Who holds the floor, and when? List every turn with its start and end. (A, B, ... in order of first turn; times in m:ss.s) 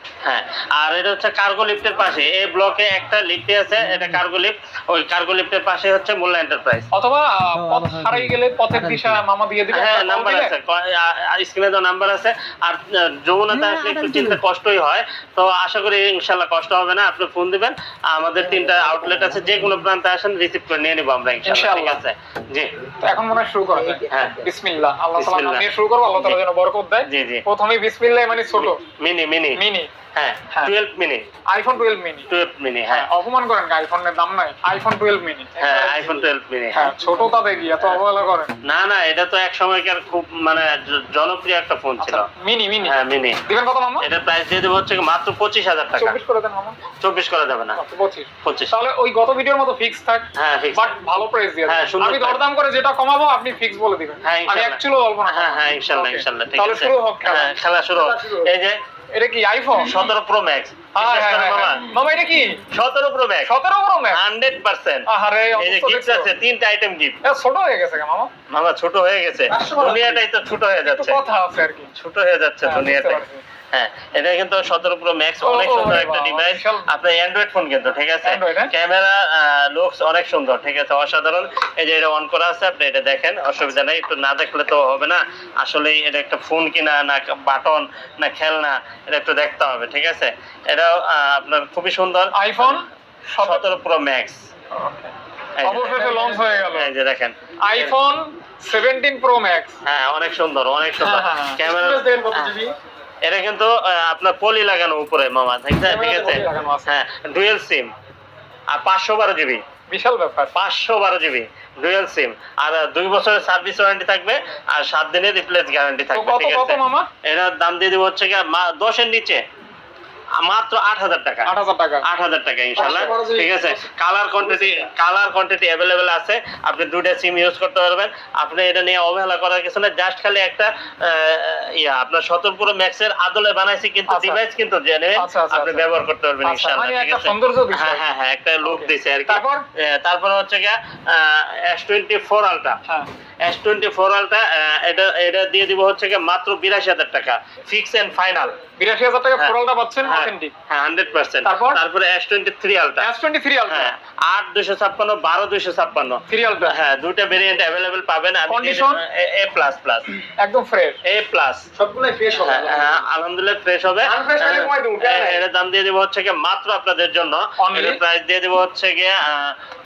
0:00.2-0:06.9 A
0:06.9-0:10.5 B
0:09.7-0:22.7 A
0:21.4-0:22.0 B
0:23.0-0:28.8 B
0:24.1-0:24.4 A
0:25.2-0:25.6 A
0:27.1-0:27.4 A
0:29.0-0:31.2 A
0:29.6-0:29.9 B
0:31.5-0:32.3 B
0:32.3-0:33.1 A
0:32.9-0:35.6 B
0:35.6-0:36.9 A
0:35.6-0:36.2 C
0:36.7-0:38.6 B
0:38.6-0:42.3 A
0:42.0-0:44.1 B
0:42.8-0:43.4 A
0:44.0-0:46.2 A
0:46.0-0:46.8 B
0:47.0-0:47.8 A
0:47.8-0:57.5 B
0:48.4-0:48.7 A
0:50.4-0:50.9 A
0:51.7-0:52.4 A
0:54.2-0:58.8 A
0:57.9-0:58.5 C
0:59.1-1:00.0 B
0:59.8-1:01.8 A
1:01.0-1:02.6 B
1:02.7-1:03.5 A
1:03.5-1:04.2 B
1:04.1-1:07.2 A
1:05.1-1:06.3 B
1:07.2-1:08.3 B
1:08.5-1:11.2 A
1:09.5-1:10.2 C
1:10.9-1:11.9 B
1:12.0-1:32.8 A
1:12.7-1:13.4 B
1:15.4-1:16.9 B
1:18.2-1:18.7 B
1:32.4-1:33.6 B
1:33.4-1:34.4 A
1:34.7-1:35.1 B
1:35.6-1:37.9 A
1:35.6-1:36.9 B
1:37.6-1:39.8 B
1:39.8-1:42.5 A
1:41.0-1:41.6 B
1:41.6-1:42.8 C
1:43.2-1:47.9 A
1:45.8-1:46.9 B
1:48.7-1:49.6 A
1:49.9-1:50.5 B
1:50.5-1:59.4 A
1:56.2-1:57.1 B
2:00.4-2:01.5 A
2:01.5-2:02.0 B
2:02.0-2:22.8 A
2:02.8-2:03.9 C
2:04.4-2:04.9 C
2:14.1-2:14.4 B
2:15.2-2:15.9 B
2:16.4-2:18.0 B
2:18.6-2:19.6 B
2:23.4-2:28.6 A
2:28.8-2:30.5 B
2:29.4-2:33.1 A
2:31.4-2:31.8 B
2:33.0-2:33.9 B
2:33.7-2:40.1 A
2:36.3-2:36.8 B
2:38.5-2:39.0 B
2:40.4-2:41.0 B
2:41.0-2:41.7 A
2:41.8-2:43.0 C
2:42.4-2:49.6 A
2:44.0-2:45.4 C
2:47.6-2:48.0 B